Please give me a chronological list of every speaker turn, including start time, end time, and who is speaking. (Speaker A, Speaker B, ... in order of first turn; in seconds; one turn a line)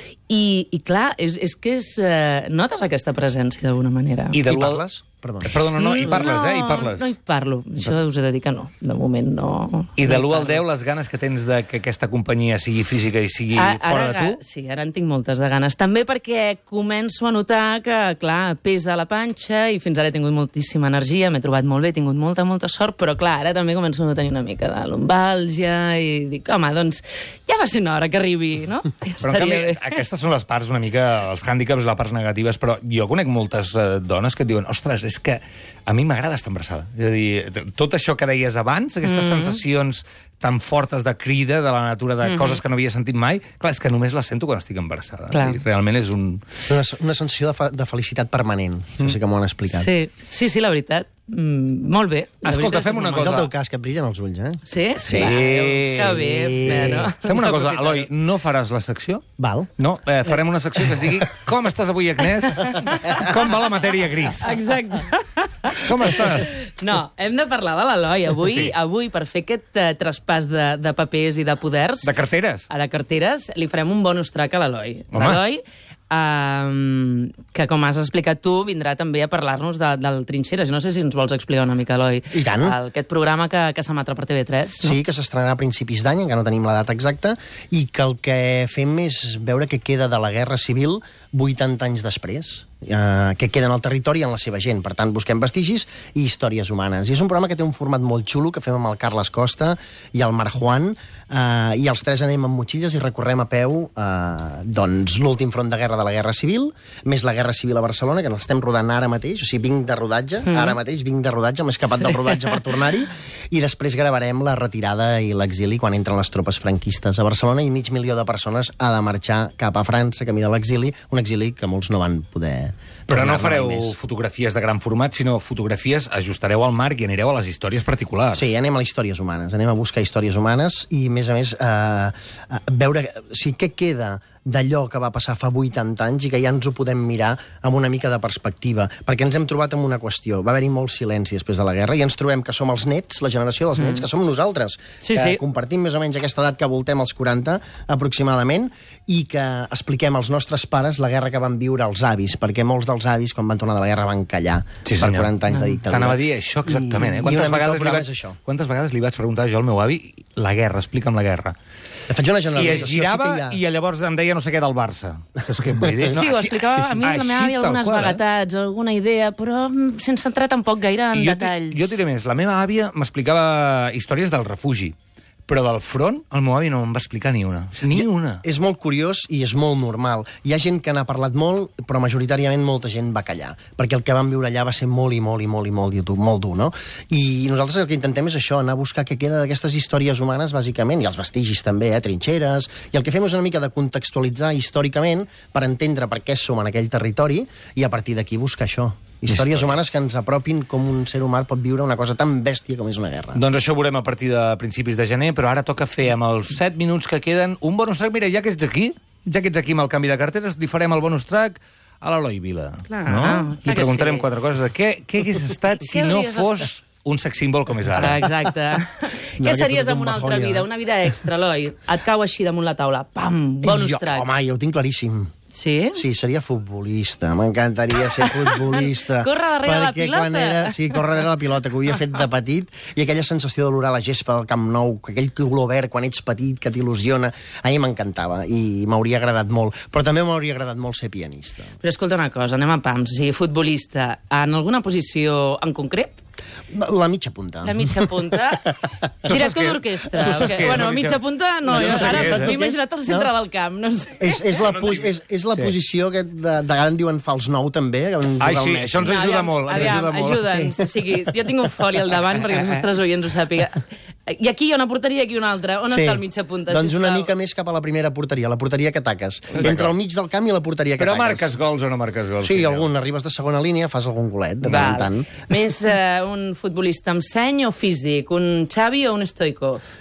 Speaker A: 0.3-4.4
Speaker B: 4.3-4.8
Speaker C: 4.5-5.5
Speaker B: 5.4-7.2
Speaker A: 5.7-10.6
Speaker B: 9.9-14.4
Speaker A: 13.5-29.9
Speaker B: 29.2-46.4
Speaker A: 39.0-39.6
Speaker A: 42.2-42.6
Speaker A: 45.3-45.6
Speaker C: 46.7-49.9
Speaker A: 49.7-53.3
Speaker B: 52.4-53.5
Speaker C: 53.1-57.1
Speaker A: 54.6-58.1
Speaker B: 55.0-59.2
Speaker C: 59.4-59.7
Speaker B: 59.8-64.7
Speaker A: 62.5-63.4
Speaker C: 62.8-63.2
Speaker A: 64.4-72.1
Speaker B: 65.7-66.6
Speaker B: 68.4-68.7
Speaker B: 72.0-72.7
Speaker A: 72.7-85.0
Speaker B: 75.1-75.4
Speaker C: 82.3-82.8
Speaker C: 84.8-124.0
Speaker A: 110.5-110.8
Speaker B: 123.1-128.5
Speaker C: 128.3-158.4
Speaker A: 143.8-144.1
Speaker A: 145.0-145.4
Speaker B: 154.8-155.3
Speaker B: 155.9-161.5
Speaker C: 162.1-163.6
Speaker B: 162.4-168.2
Speaker C: 165.6-166.2
Speaker A: 166.1-172.0
Speaker B: 171.1-174.9
Speaker B: 175.5-178.4
Speaker C: 177.9-203.4
Speaker B: 199.3-199.8
Speaker B: 203.3-218.2
Speaker A: 212.9-214.2
Speaker A: 215.9-216.7
Speaker C: 217.9-218.5
Speaker A: 217.9-224.3
Speaker C: 219.4-220.7
Speaker C: 223.6-225.3
Speaker A: 225.5-226.0
Speaker C: 225.9-241.7
Speaker A: 228.2-231.2
Speaker A: 241.8-246.2
Speaker C: 246.7-249.3
Speaker A: 247.6-248.7
Speaker B: 249.2-252.5
Speaker A: 249.3-254.4
Speaker C: 250.2-250.8
Speaker C: 251.7-253.3
Speaker C: 254.2-259.1
Speaker B: 254.6-255.7
Speaker B: 258.4-260.6
Speaker A: 259.0-267.3
Speaker C: 260.5-260.9
Speaker C: 265.9-271.5
Speaker B: 269.5-269.9
Speaker B: 271.0-272.9
Speaker C: 272.4-275.4
Speaker A: 274.6-279.8